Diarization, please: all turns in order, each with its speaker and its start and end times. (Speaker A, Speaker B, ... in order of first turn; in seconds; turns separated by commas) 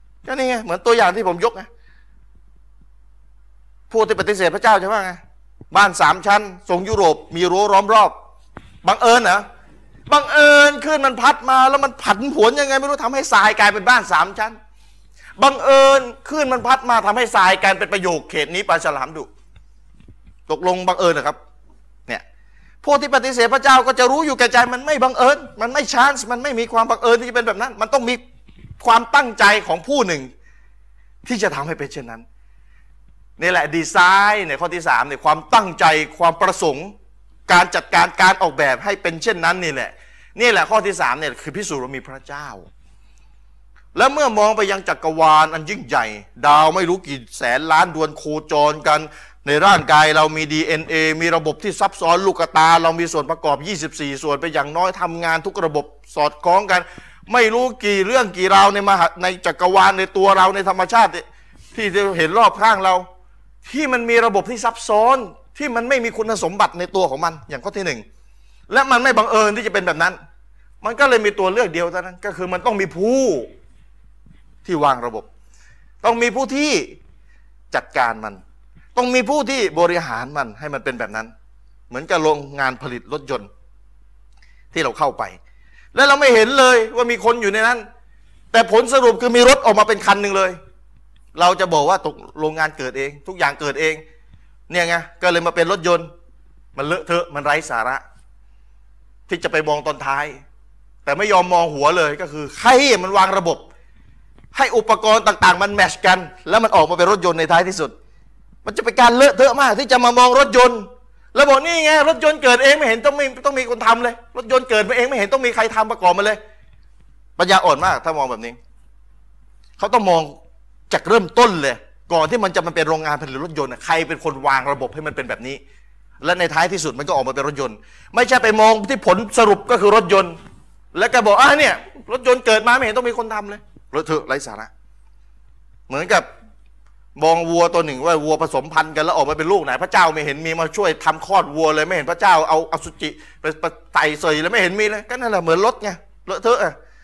Speaker A: 0.2-1.7, Speaker A: 3.9-5.2, Speaker A: 5.7-8.2, Speaker A: 8.8-9.4, Speaker A: 10.1-14.6, Speaker A: 15.4-19.3, Speaker A: 20.5-21.4, Speaker A: 22.8-28.2, Speaker A: 28.8-30.3, Speaker A: 31.2-32.2, Speaker A: 33.4-37.0, Speaker A: 37.5-42.7, Speaker A: 44.0-63.1, Speaker A: 63.6-68.0, Speaker A: 68.7-70.2, Speaker A: 70.8-73.5, Speaker A: 74.7-75.3, Speaker A: 76.0-77.0, Speaker A: 77.7-78.4, Speaker A: 79.0-81.3, Speaker A: 81.9-83.5, Speaker A: 84.7-85.4, Speaker A: 85.9-87.9, Speaker A: 88.5-90.6, Speaker A: 91.3-94.0, Speaker A: 94.7-96.1, Speaker A: 96.8-98.0, Speaker A: 99.3-100.4, Speaker A: 101.0-103.7, Speaker A: 104.5-107.9, Speaker A: 108.7-116.4, Speaker A: 117.4-118.6, Speaker A: 119.8-120.4, Speaker A: 120.9-125.6, Speaker A: 126.2-130.4, Speaker A: 130.9-134.7, Speaker A: 135.9-136.3, Speaker A: 137.2-146.8